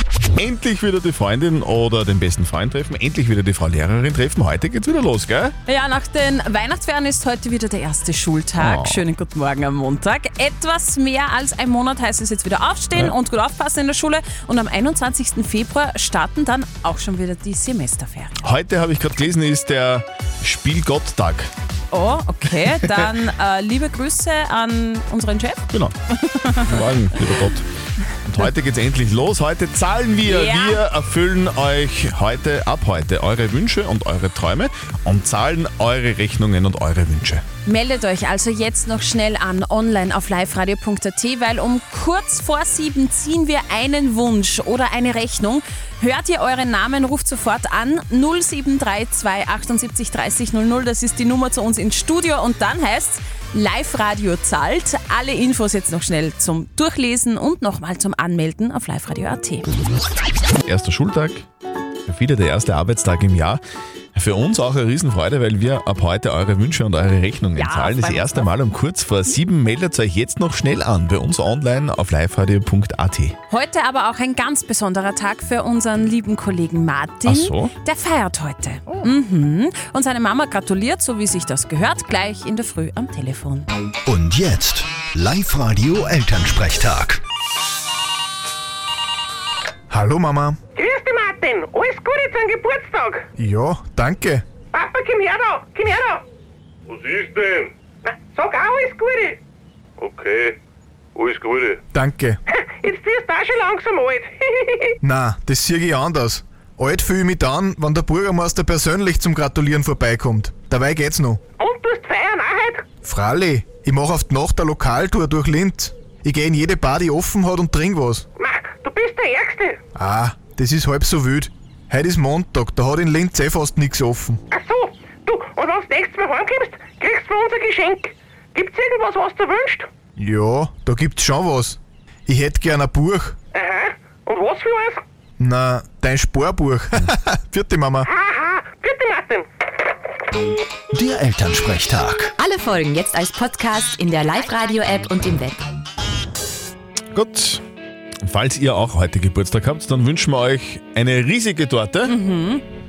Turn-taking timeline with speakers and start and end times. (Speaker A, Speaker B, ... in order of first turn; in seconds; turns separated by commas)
Speaker A: 0.4-5.5, Speaker B: 5.7-18.4, Speaker A: 8.6-9.0, Speaker A: 18.4-21.5, Speaker B: 21.9-25.6, Speaker B: 26.2-26.8, Speaker A: 26.6-27.6, Speaker A: 28.2-37.4, Speaker B: 30.2-30.8, Speaker B: 37.6-59.7, Speaker A: 60.6-61.5, Speaker A: 62.1-63.6, Speaker A: 64.2-73.3, Speaker B: 67.6-68.5, Speaker B: 73.5-83.7, Speaker A: 77.2-77.7, Speaker A: 78.9-79.1, Speaker C: 84.1-87.2, Speaker D: 89.9-90.6, Speaker E: 90.8-93.3, Speaker D: 93.4-94.4, Speaker E: 94.7-96.2, Speaker F: 96.9-97.7, Speaker E: 98.0-99.4, Speaker F: 100.0-100.5, Speaker F: 101.2-101.8, Speaker D: 101.9-102.4, Speaker E: 102.5-105.0, Speaker D: 105.0-111.4, Speaker E: 111.6-112.8, Speaker D: 113.0-118.2, Speaker E: 118.4-119.8, Speaker D: 120.0-124.4, Speaker E: 124.5-129.9, Speaker D: 130.2-133.4, Speaker E: 133.5-135.0, Speaker D: 135.4-138.1, Speaker E: 138.1-139.5, Speaker C: 140.9-142.3, Speaker G: 142.4-145.6, Speaker A: 147.1-147.6, Speaker A: 148.2-152.2, Speaker B: 152.1-152.6